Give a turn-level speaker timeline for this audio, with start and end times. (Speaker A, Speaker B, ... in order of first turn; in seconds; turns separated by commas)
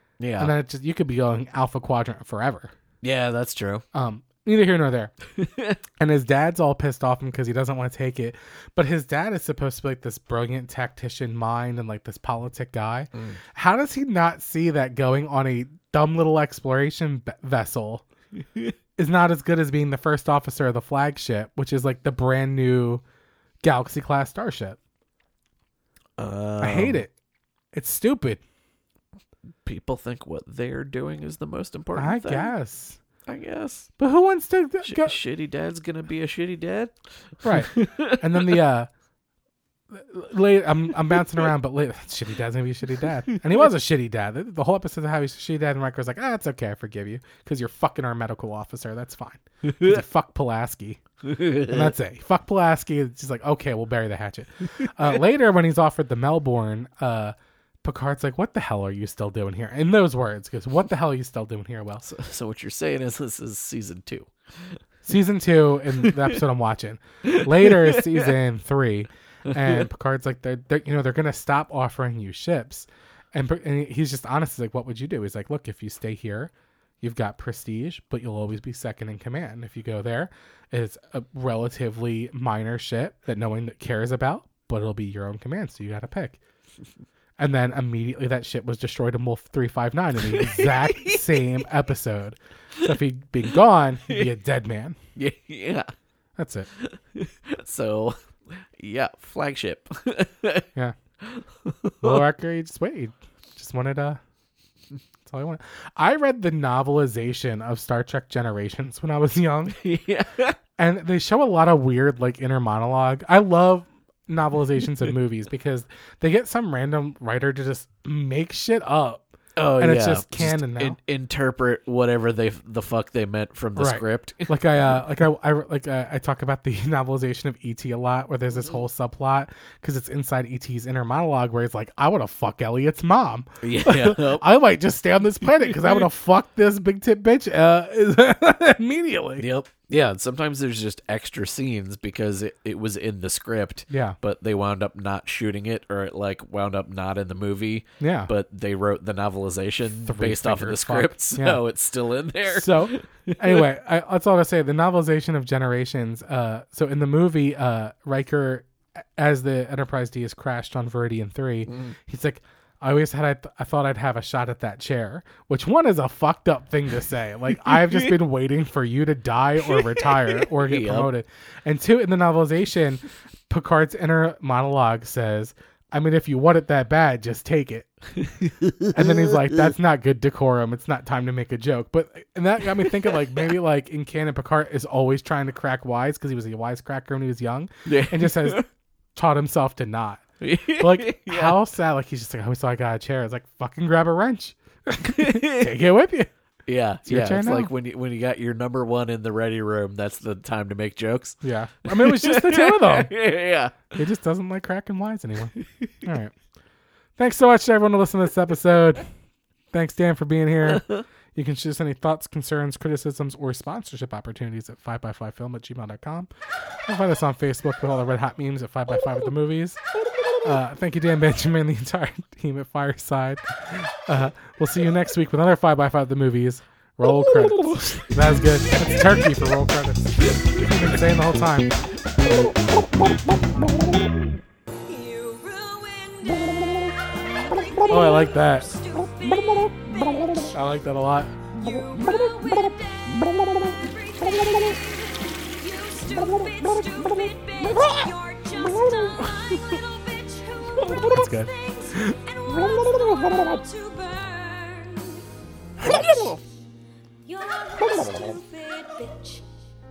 Speaker A: 0.2-0.5, Speaker B: 0.4-2.7, Speaker A: 3.0-3.8, Speaker B: 3.9-5.1, Speaker A: 5.4-5.8, Speaker B: 6.0-18.1, Speaker B: 19.0-23.0, Speaker B: 23.6-24.8, Speaker A: 26.2-27.0, Speaker B: 26.6-27.1, Speaker B: 27.7-28.4, Speaker A: 29.6-32.5, Speaker B: 32.0-33.0, Speaker A: 33.3-33.9, Speaker B: 34.0-35.2, Speaker A: 34.8-38.6, Speaker B: 37.4-38.9, Speaker B: 39.9-51.0, Speaker A: 49.6-50.0, Speaker A: 51.2-52.0, Speaker B: 51.5-62.1, Speaker A: 62.0-64.8, Speaker B: 65.0-86.4, Speaker A: 66.0-66.3, Speaker A: 67.3-68.3, Speaker A: 69.5-69.9, Speaker B: 87.4-95.0, Speaker A: 90.3-91.4, Speaker A: 95.2-95.9, Speaker B: 96.4-96.7, Speaker A: 96.8-100.7, Speaker A: 101.2-102.2, Speaker B: 102.0-104.2, Speaker B: 105.3-109.8, Speaker A: 109.8-110.6, Speaker B: 110.8-119.3, Speaker A: 119.6-125.0, Speaker B: 119.8-121.0, Speaker B: 123.8-139.5, Speaker A: 133.6-134.4, Speaker A: 135.7-136.0, Speaker A: 139.4-153.7, Speaker B: 143.9-144.2, Speaker B: 148.0-148.3, Speaker B: 150.1-151.6, Speaker B: 152.5-177.9, Speaker A: 161.7-161.9, Speaker A: 167.6-168.1, Speaker A: 169.6-171.1, Speaker A: 178.2-179.6, Speaker B: 178.9-188.6, Speaker A: 182.8-183.5, Speaker A: 187.9-188.7, Speaker B: 189.2-190.2, Speaker A: 190.4-191.6, Speaker B: 190.8-196.3, Speaker A: 195.2-195.7, Speaker A: 196.7-203.9, Speaker B: 197.1-197.7, Speaker B: 201.4-203.1, Speaker B: 203.9-206.3, Speaker A: 205.6-206.1, Speaker B: 207.2-209.1, Speaker B: 209.7-216.3, Speaker A: 210.7-211.0, Speaker B: 216.9-219.8, Speaker B: 220.4-231.7, Speaker A: 227.0-229.5, Speaker A: 230.2-231.0, Speaker C: 234.9-240.6, Speaker B: 237.9-238.7, Speaker B: 240.5-241.3, Speaker C: 241.5-255.2, Speaker B: 250.9-252.0, Speaker C: 255.8-256.4, Speaker A: 255.8-256.4, Speaker C: 257.2-259.4